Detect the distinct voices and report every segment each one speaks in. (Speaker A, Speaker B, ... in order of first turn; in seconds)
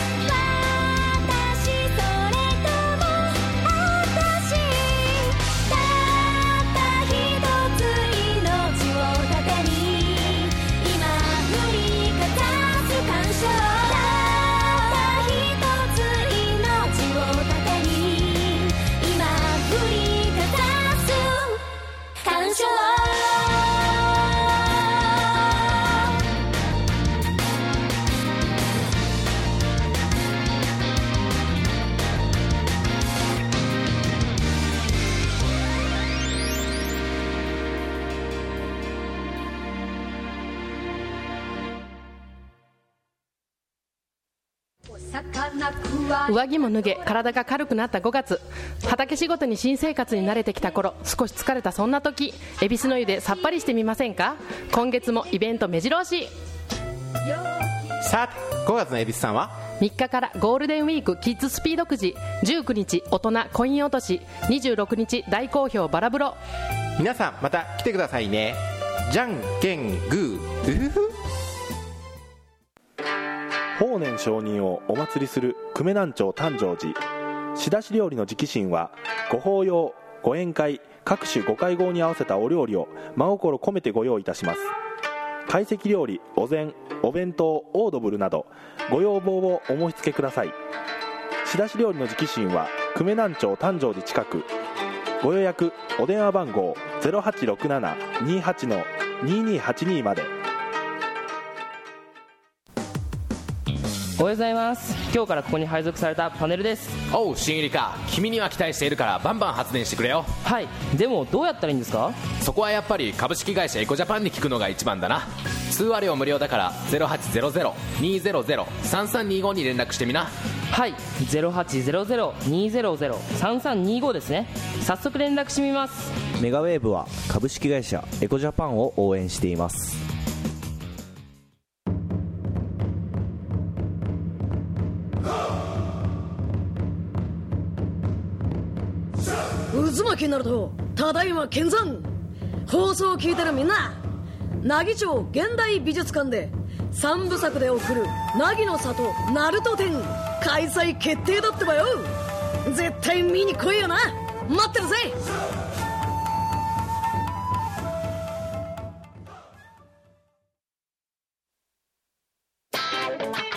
Speaker A: 0.2-21.6, 22.2-23.9, 45.4-46.2
Speaker B: 46.3-56.3, 59.8-66.4
Speaker C: 58.0-59.5, 67.0-71.1
Speaker D: 73.8-77.0, 77.5-84.7, 85.5-90.6, 91.4-94.5, 95.2-100.3
Speaker E: 104.2-107.0, 110.4-112.3, 120.7-126.2
Speaker F: 107.1-110.3, 112.4-120.3
Speaker G: 126.4-130.0
Speaker H: 139.7-142.1, 142.7-144.0, 144.6-152.1, 152.7-155.2